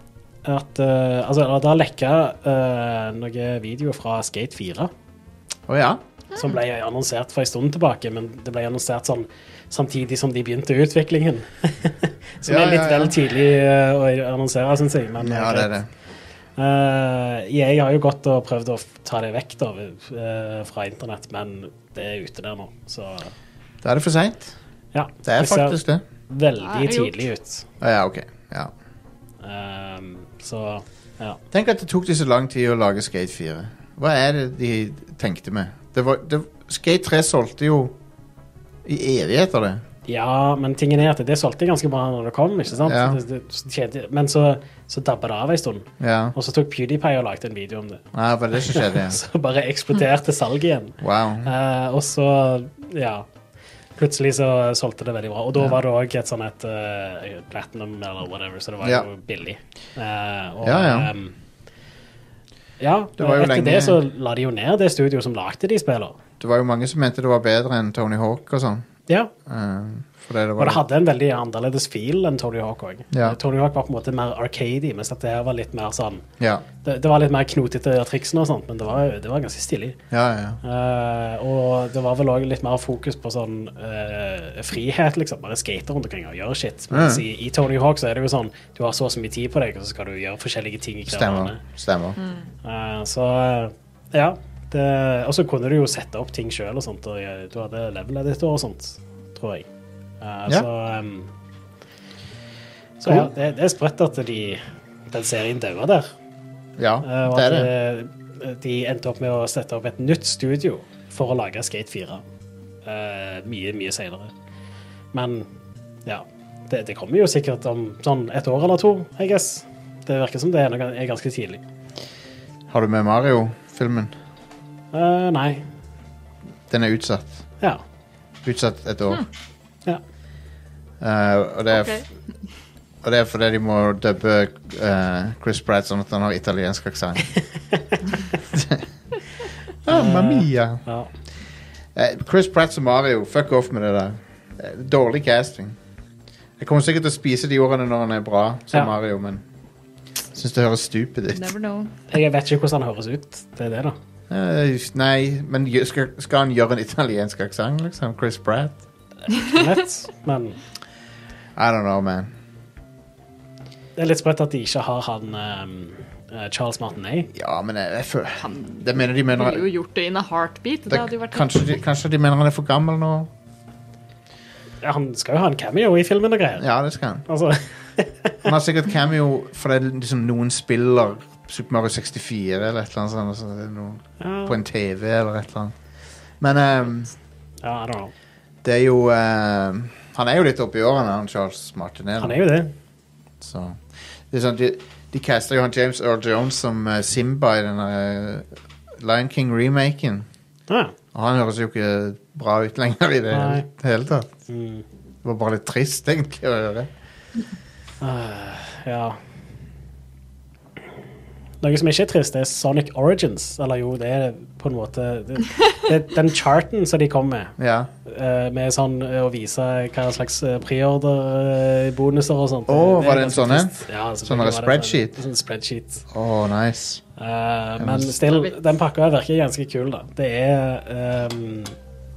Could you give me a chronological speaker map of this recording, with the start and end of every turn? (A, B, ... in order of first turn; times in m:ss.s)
0:00.4-0:04.9 A
0:05.7-0:06.0 B
0:06.3-0:15.7 A
0:12.4-0:13.2 B
0:15.2-0:15.9 B
0:16.6-0:23.3 A
0:23.8-0:24.6 B
0:24.9-0:27.7 A
0:25.2-0:26.0 B
0:26.6-0:27.2 C
0:27.8-0:28.7 B
0:29.4-0:31.4 A
0:31.5-0:38.0 B
0:38.8-0:39.8 B
0:40.1-0:48.0 A
0:42.8-0:43.2 B
0:46.0-0:46.4 B
0:48.1-0:49.2 B
0:48.6-0:53.3 A
0:51.0-0:51.5 B
0:54.0-1:01.4 A
0:58.8-0:59.1 B
1:00.6-1:01.1 B
1:02.8-1:06.2 A
1:03.2-1:04.0 B
1:06.4-1:08.9 B
1:09.5-1:10.8 B
1:10.6-1:16.3 A
1:13.1-1:13.4 B
1:16.4-1:16.6 B
1:16.8-1:20.0 A
1:20.1-1:20.6 B
1:20.6-1:31.6 A
1:26.9-1:27.2 B
1:31.1-1:32.2 B
1:32.2-1:32.5 C
1:32.6-1:39.7 A
1:40.2-1:41.3 A
1:43.0-1:46.1 A
1:46.8-1:47.7 B
1:47.0-1:52.2 A
1:52.8-1:54.3 A
1:55.1-1:55.5 A
1:56.0-2:01.6 A
2:02.7-2:04.1 B
2:04.9-2:05.6 A
2:06.7-2:07.4 B
2:08.4-2:09.3 B
2:11.0-2:12.0 B
2:11.7-2:12.0 C
2:13.0-2:17.3 B
2:18.4-2:18.9 B
2:19.8-2:20.8 B
2:19.9-2:21.1 A
2:22.0-2:25.8 B
2:26.6-2:29.4 B
2:30.3-2:31.5 B
2:31.3-2:31.9 C
2:32.1-2:34.0 A
2:34.3-2:38.8 B
2:39.3-2:40.6 A
2:41.6-2:42.3 B
2:44.0-2:47.3 A
2:47.3-2:49.7 B
2:48.4-2:51.7 C
2:50.9-2:53.3 B
2:54.8-2:56.7 A
2:56.6-2:57.3 B
2:57.3-2:58.4 A
2:58.4-3:05.8 B
3:04.2-3:04.6 A
3:06.4-3:07.1 B
3:07.6-3:08.1 A
3:08.6-3:12.4 B
3:12.2-3:12.7 A
3:13.4-3:18.5 B
3:19.0-3:20.3 B
3:20.7-3:21.0 A
3:21.1-3:24.3 B
3:23.3-3:23.7 A
3:24.5-3:24.8 A
3:25.2-3:26.9 B
3:28.0-3:29.2 A
3:31.6-3:46.1 A
3:37.6-3:37.9 B
3:42.7-3:45.2 B
3:46.1-3:47.0 B
3:47.2-3:51.8 A
3:47.8-3:48.2 B